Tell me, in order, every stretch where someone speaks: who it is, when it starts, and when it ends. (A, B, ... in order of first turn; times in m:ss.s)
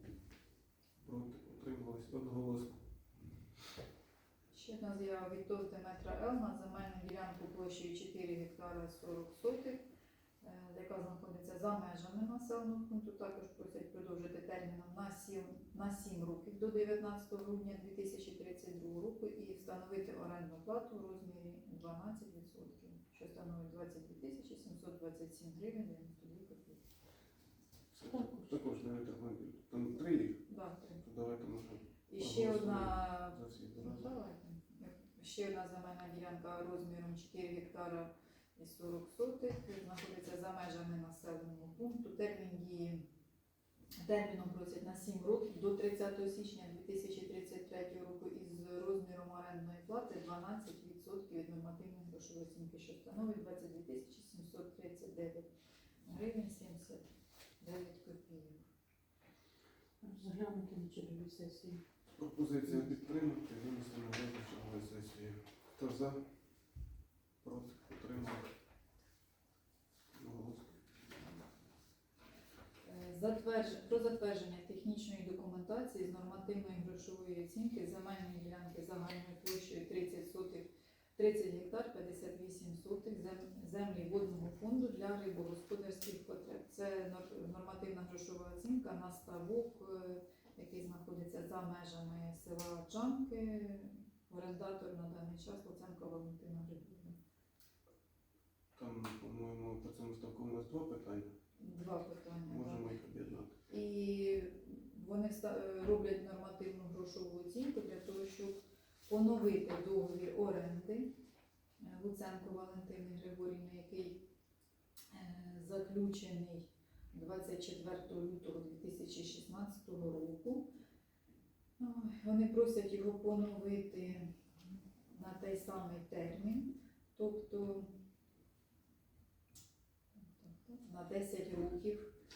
0:01.0-0:02.8 A
0:04.5-0:09.8 B
0:10.4-0:26.8 B
0:27.9-0:30.5 A
0:28.1-0:28.5 C
0:30.5-0:31.0 B
0:31.0-0:34.1 A
0:32.1-0:43.0 B
0:44.0-0:55.5 B
0:56.0-0:57.1 B
0:57.6-0:58.7 B
1:00.0-1:01.8 C
1:02.2-1:06.3 A
1:07.4-1:08.5 A
1:10.1-1:10.8 A
1:12.8-1:37.2 B
1:38.8-1:41.3 A
1:41.6-1:42.9 B
1:42.5-1:43.5 A
1:43.7-1:51.1 B
1:51.8-1:54.2 B
1:55.1-2:00.7 B
2:01.8-2:04.3 B
2:05.1-2:07.9 B
2:10.2-2:12.1 B